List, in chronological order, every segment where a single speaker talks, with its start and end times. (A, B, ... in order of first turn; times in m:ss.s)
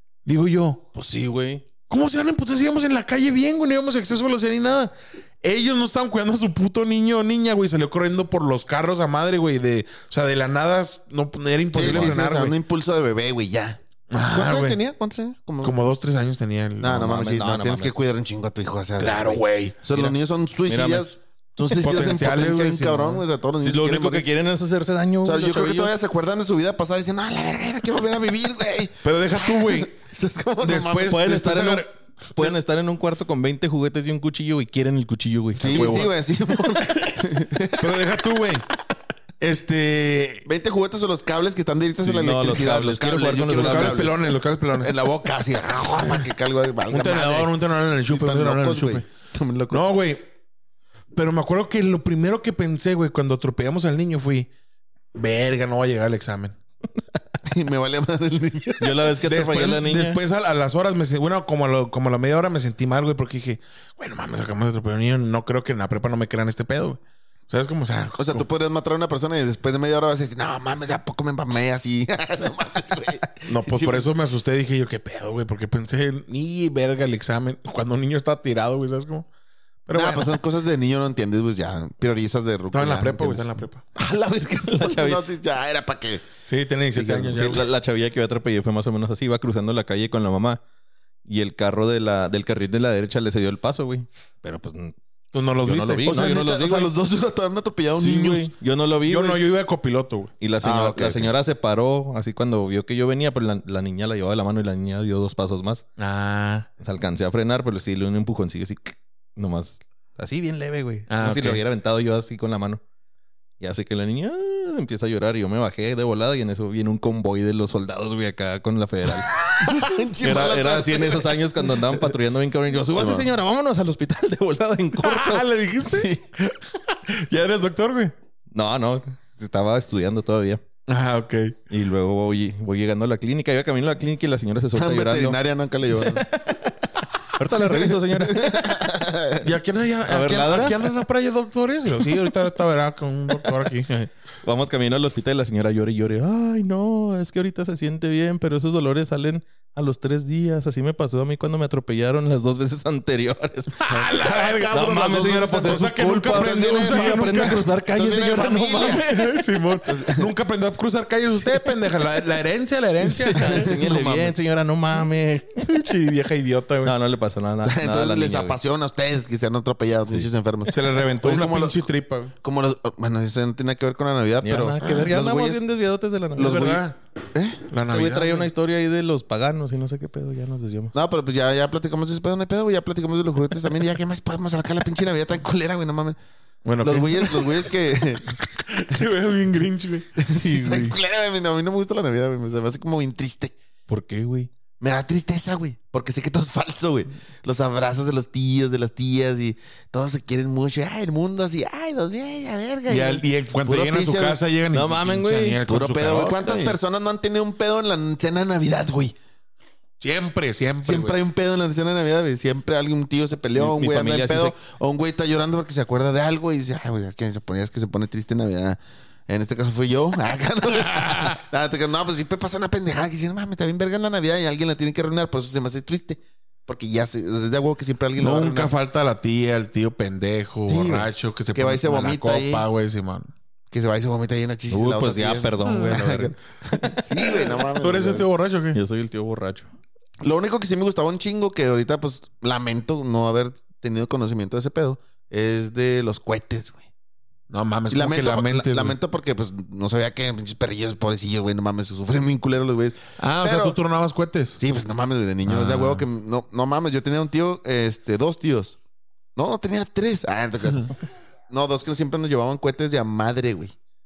0:00.2-0:00.8 A
0:00.9-0:01.6 B
0:01.9-0:12.6 A
0:11.7-0:15.8 C
0:11.8-0:12.1 B
0:14.1-0:14.8 A
0:15.6-0:17.2 A
0:16.8-0:24.3 C
0:17.0-0:18.0 B
0:19.0-0:19.8 A
0:20.7-0:21.1 B
0:21.8-0:23.2 A
0:23.6-0:25.9 B
0:25.2-0:31.2 C
0:29.0-0:29.9 A
0:30.6-0:31.9 A
0:31.1-0:36.1 B
0:35.6-0:38.0 C
0:35.6-0:35.9 A
0:37.8-0:38.6 A
0:39.4-0:40.4 A
0:40.4-0:44.2 C
0:42.0-0:44.1 B
0:43.5-0:44.9 A
0:44.8-0:47.5 C
0:46.9-0:49.0 A
0:48.1-0:49.8 C
0:49.7-0:50.3 A
0:51.1-0:54.5 A
0:55.1-0:56.6 A
0:57.4-0:59.1 C
0:58.8-1:00.2 B
0:59.2-1:08.4 A
1:08.1-1:14.0 C
1:13.4-1:19.3 A
1:19.8-1:20.4 A
1:19.9-1:26.2 C
1:22.7-1:23.8 A
1:24.6-1:25.2 B
1:26.5-1:27.6 A
1:26.9-1:27.6 C
1:27.3-1:30.6 B
1:31.2-1:35.0 B
1:35.3-1:36.2 A
1:35.6-1:36.9 B
1:36.0-1:38.5 C
1:38.0-1:39.4 B
1:39.1-1:40.3 A
1:40.4-1:45.8 B
1:40.6-1:41.3 C
1:46.0-1:46.7 A
1:46.8-1:52.8 B
1:51.1-1:51.6 A
1:53.6-1:59.4 B
1:59.5-2:02.1 C
2:00.2-2:06.2 B
2:02.9-2:03.3 C
2:05.0-2:08.1 A
2:08.5-2:10.6 B
2:10.9-2:11.6 A
2:11.7-2:15.4 B
2:14.7-2:16.3 C
2:15.9-2:16.8 B
2:17.3-2:19.0 B
2:17.5-2:19.5 C
2:19.4-2:24.1 A
2:20.1-2:20.8 B
2:24.4-2:33.9 B
2:33.8-2:37.6 A
2:34.2-2:39.0 C
2:34.7-2:39.3 B
2:39.0-2:43.7 A
2:39.8-2:40.3 C
2:43.0-2:45.6 B
2:43.3-2:44.3 C
2:45.6-2:46.9 A
2:46.8-2:48.6 B
2:47.6-2:51.8 C
2:50.7-2:52.3 A
2:52.4-2:55.6 C
2:54.4-2:56.8 B
2:56.4-2:57.0 A
2:56.4-2:57.6 C
2:57.7-2:58.5 A
2:57.9-3:00.9 B
3:00.9-3:06.2 C
3:06.6-3:07.6 A
3:06.8-3:08.4 C
3:08.7-3:10.1 A
3:10.2-3:13.5 C
3:10.2-3:11.0 B
3:13.9-3:14.5 B
3:14.8-3:24.4 C
3:22.9-3:26.8 A
3:24.7-3:25.6 B
3:25.7-3:29.1 C
3:30.0-3:31.2 A
3:30.8-3:48.7 C
3:33.6-3:34.5 B
3:40.8-3:41.4 A
3:48.2-3:53.3 A
3:50.7-3:52.6 C
3:53.7-3:58.3 C
3:54.7-3:56.4 B
3:57.8-3:58.8 A
3:58.7-3:59.7 B
4:00.2-4:06.8 C
4:07.5-4:09.0 A
4:07.9-4:13.8 C
4:13.2-4:14.6 A
4:14.6-4:18.8 C
4:15.4-4:16.0 A
4:19.4-4:20.9 C
4:21.5-4:23.7 C